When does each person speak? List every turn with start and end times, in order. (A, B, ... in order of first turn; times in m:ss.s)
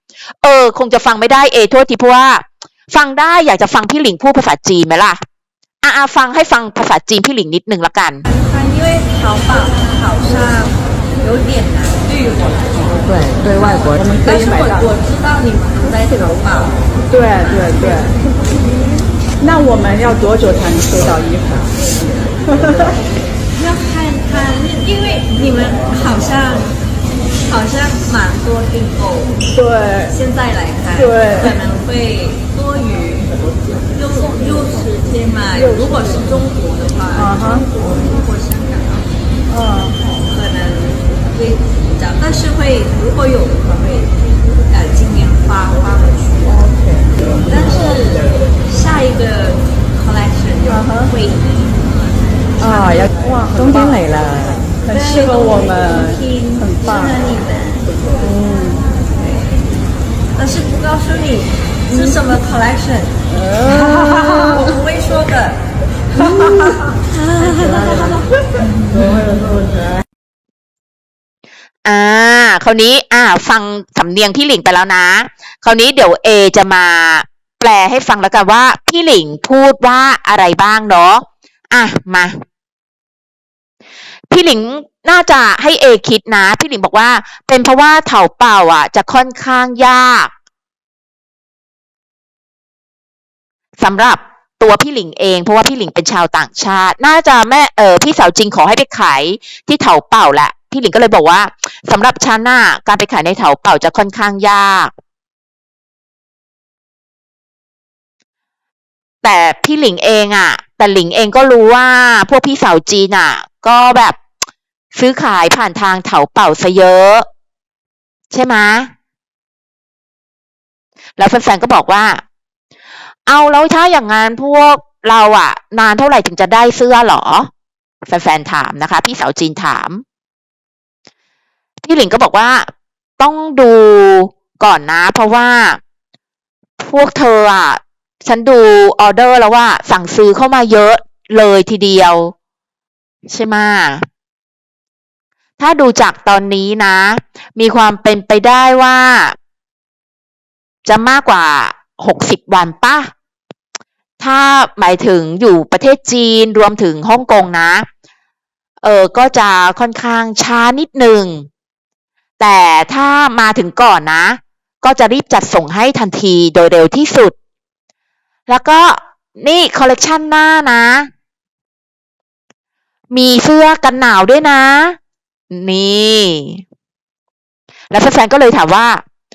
0:00.4-0:05.2 A
0:05.8-0:08.2 A
0:08.3-0:18.2 B
0:13.3-0:14.8 C
0:17.1-0:18.1 C
0:19.4-0:21.8 C
0:22.5-0:23.0 C
0:23.5-0:26.8 B
0:27.4-0:29.4 B
0:29.5-0:30.1 C
0:30.1-0:39.2 B
0:31.0-0:31.5 C
0:37.2-0:37.6 C
0:39.5-0:40.0 C
0:40.1-0:46.6 B
0:46.5-0:47.6 C
0:47.4-0:54.2 B
0:50.7-0:51.1 C
0:52.6-0:57.1 C
0:54.8-0:58.2 B
0:58.2-0:58.8 C
0:59.0-0:59.6 B
1:00.3-1:05.6 B
1:03.3-1:04.6 C
1:06.1-1:08.4 B
1:06.3-1:06.8 C
1:07.6-1:08.0 C
1:08.9-1:10.0 C
1:11.8-1:22.3 A
1:24.3-1:30.3 A
1:33.8-1:44.9 A
1:49.2-1:54.2 A
1:54.9-1:57.2 A
1:58.3-1:58.9 A
2:01.2-2:02.2 A
2:03.3-2:07.5 A
2:08.0-2:10.0 A
2:11.8-2:12.7 A
2:13.2-2:15.8 A
2:16.8-2:22.3 A
2:23.3-2:24.0 A
2:25.6-2:29.4 A
2:30.8-2:33.1 A
2:34.2-2:37.8 A
2:38.8-2:41.5 A
2:42.4-2:47.3 A
2:48.5-2:51.1 A
2:53.1-2:55.0 A
2:55.5-2:56.6 A
2:57.9-2:59.0 A